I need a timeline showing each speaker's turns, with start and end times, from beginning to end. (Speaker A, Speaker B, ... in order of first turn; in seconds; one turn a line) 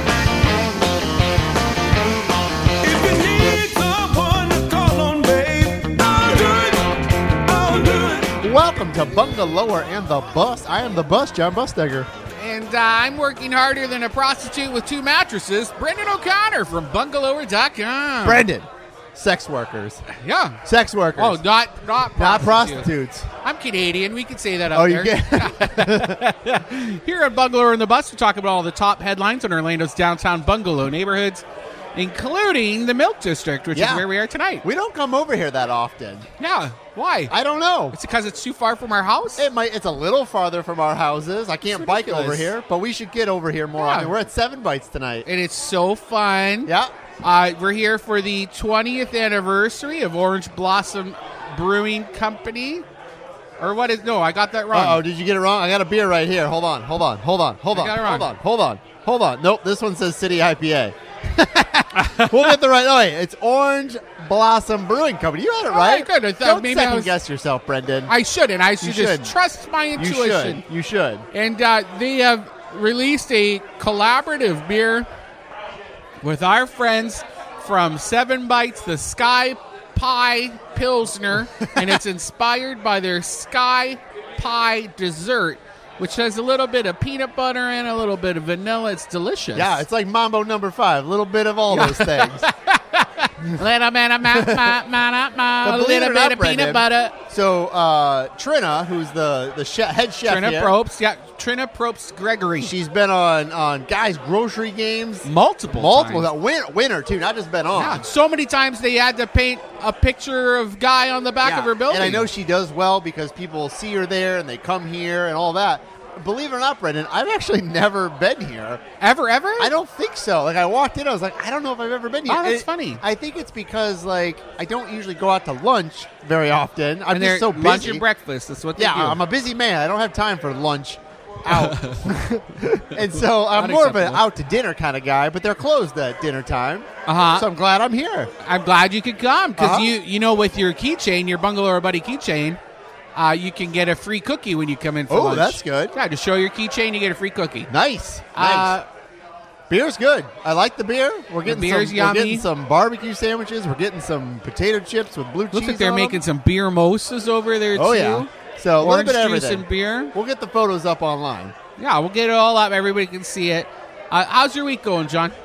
Speaker A: 2.8-8.3
Speaker B: 8.4-12.1
Speaker C: 12.4-18.4
Speaker B: 18.2-20.0
Speaker C: 20.1-20.6
Speaker B: 20.6-21.4
Speaker C: 21.1-22.9
Speaker B: 22.1-23.3
Speaker C: 23.4-31.4
Speaker B: 24.7-26.2
Speaker C: 31.9-34.6
Speaker B: 33.7-34.0
Speaker B: 34.6-36.3
Speaker C: 36.4-37.3
Speaker B: 37.3-38.0
Speaker C: 37.9-39.5
Speaker B: 39.4-45.2
Speaker C: 41.7-42.5
Speaker C: 43.8-44.1
Speaker C: 45.2-46.7
Speaker B: 46.6-46.9
Speaker C: 47.2-52.9
Speaker C: 53.6-55.0
Speaker B: 54.7-68.1
Speaker C: 57.7-58.3
Speaker C: 65.7-67.2
Speaker C: 68.1-70.6
Speaker B: 68.8-69.3
Speaker B: 70.0-71.2
Speaker C: 71.3-75.1
Speaker C: 76.2-89.8
Speaker B: 81.6-81.9
Speaker B: 89.5-92.4
Speaker C: 91.7-97.2
Speaker B: 94.3-94.7
Speaker B: 95.6-100.8
Speaker C: 100.2-102.7
Speaker B: 102.6-108.0
Speaker C: 105.2-106.3
Speaker C: 107.7-112.3
Speaker B: 111.4-118.8
Speaker C: 119.0-119.7
Speaker B: 119.6-128.0
Speaker C: 122.3-123.0
Speaker C: 127.1-129.2
Speaker B: 128.8-138.3
Speaker C: 131.5-132.0
Speaker C: 133.0-134.2
Speaker C: 137.1-137.5
Speaker C: 138.4-142.6
Speaker B: 139.6-139.9
Speaker C: 143.1-147.7
Speaker B: 145.1-145.9
Speaker B: 147.7-148.8
Speaker C: 148.3-148.9
Speaker B: 149.7-156.2
Speaker C: 151.4-152.4
Speaker C: 155.5-160.1
Speaker B: 157.7-161.5
Speaker C: 161.8-165.3